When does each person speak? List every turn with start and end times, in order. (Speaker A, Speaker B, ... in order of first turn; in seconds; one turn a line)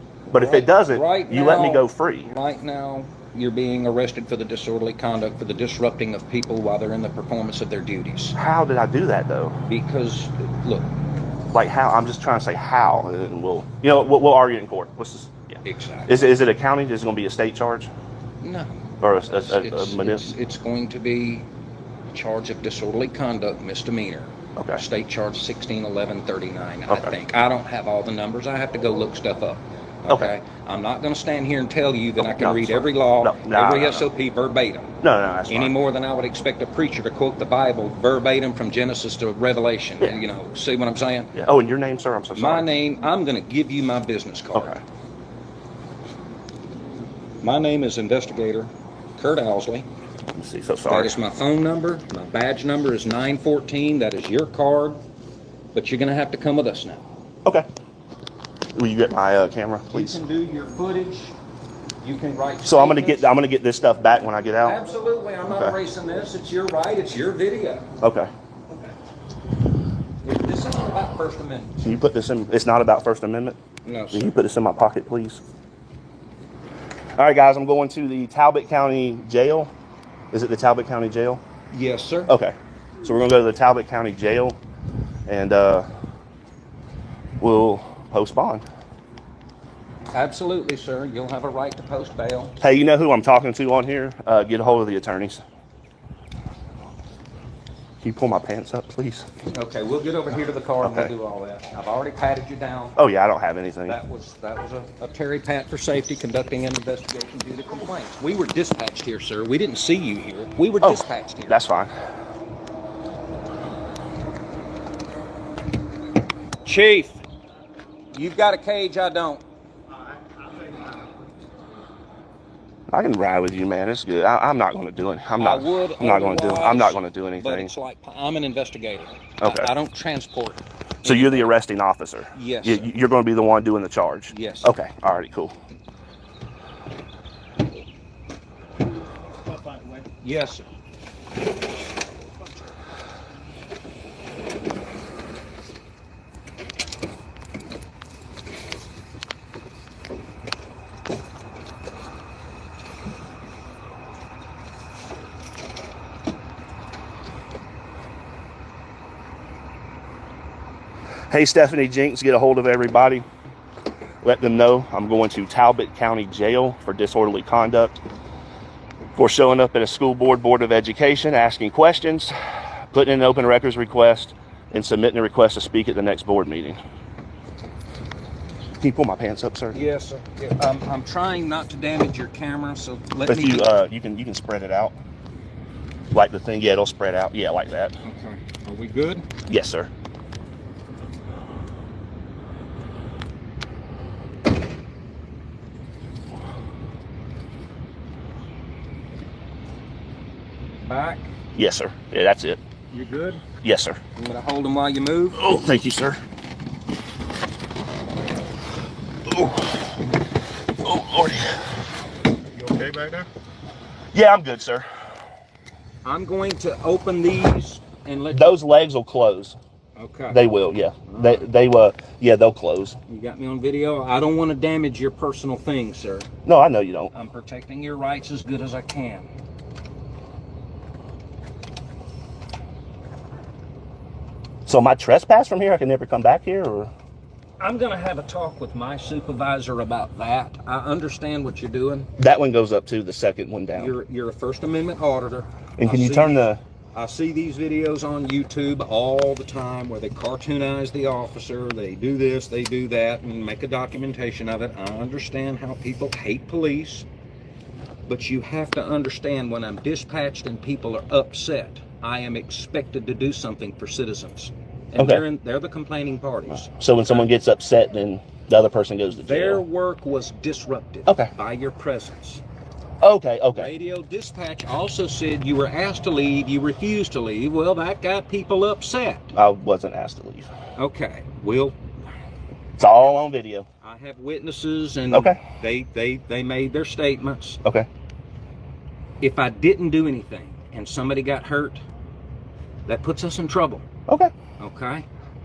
Speaker A: 0.3-2.3
Speaker B: 0.3-8.3
Speaker A: 8.3-9.6
Speaker B: 9.7-10.9
Speaker A: 11.5-17.9
Speaker B: 15.6-16.2
Speaker B: 18.4-18.8
Speaker A: 19.0-20.3
Speaker B: 19.3-21.5
Speaker B: 22.1-34.9
Speaker A: 24.6-24.8
Speaker A: 26.9-27.1
Speaker A: 32.2-34.1
Speaker A: 35.0-35.7
Speaker B: 35.5-41.3
Speaker A: 41.4-42.7
Speaker B: 42.3-44.7
Speaker A: 44.5-44.8
Speaker B: 47.4-49.9
Speaker A: 50.3-51.2
Speaker B: 50.9-55.0
Speaker B: 55.7-57.0
Speaker A: 58.7-60.2
Speaker B: 59.9-61.4
Speaker B: 62.0-63.3
Speaker A: 62.6-64.8
Speaker B: 64.6-67.9
Speaker A: 65.5-65.7
Speaker A: 68.0-68.3
Speaker B: 70.2-71.8
Speaker A: 71.8-73.6
Speaker B: 73.8-74.4
Speaker A: 74.1-75.4
Speaker A: 77.2-79.7
Speaker A: 80.3-81.4
Speaker B: 81.7-82.3
Speaker A: 82.3-84.6
Speaker A: 85.3-85.9
Speaker A: 87.4-88.6
Speaker B: 90.1-92.5
Speaker A: 92.6-95.4
Speaker A: 98.0-99.2
Speaker B: 99.5-103.0
Speaker A: 100.8-101.1
Speaker A: 103.0-104.0
Speaker B: 103.8-111.6
Speaker A: 110.8-111.9
Speaker B: 116.6-117.2
Speaker B: 118.1-119.4
Speaker A: 122.9-127.7
Speaker B: 125.4-131.6
Speaker A: 129.4-129.7
Speaker A: 131.0-135.5
Speaker B: 132.3-132.9
Speaker B: 134.3-134.7
Speaker B: 140.1-140.7
Speaker A: 161.3-163.2
Speaker A: 164.2-168.0
Speaker A: 169.2-172.3
Speaker A: 172.9-176.8
Speaker A: 178.8-179.8
Speaker B: 179.7-183.7
Speaker A: 183.2-184.9
Speaker A: 186.1-188.0
Speaker B: 188.0-189.2
Speaker A: 189.5-189.9
Speaker B: 200.8-201.3
Speaker A: 201.5-202.6
Speaker B: 202.9-203.4
Speaker A: 203.6-204.0
Speaker B: 204.2-205.4
Speaker A: 205.3-206.2
Speaker A: 209.3-209.8
Speaker A: 210.8-211.7
Speaker B: 212.6-213.3
Speaker A: 214.1-214.9
Speaker B: 216.0-218.6
Speaker A: 218.3-219.6
Speaker B: 219.9-220.4
Speaker A: 220.3-223.0
Speaker B: 221.1-221.5
Speaker B: 223.1-226.3
Speaker A: 226.4-227.1
Speaker B: 227.1-229.3
Speaker A: 234.7-236.9
Speaker B: 237.6-242.1
Speaker A: 242.2-243.9
Speaker B: 243.7-257.1
Speaker A: 245.8-246.6
Speaker B: 258.1-266.8
Speaker A: 265.0-265.2
Speaker A: 266.7-269.6
Speaker B: 269.2-272.4
Speaker A: 273.0-273.7
Speaker B: 273.5-279.3
Speaker A: 279.3-280.5
Speaker B: 280.8-281.8
Speaker A: 282.8-283.6
Speaker B: 283.8-287.6
Speaker A: 285.1-285.4
Speaker B: 289.2-291.8
Speaker B: 292.9-293.8
Speaker B: 294.6-295.1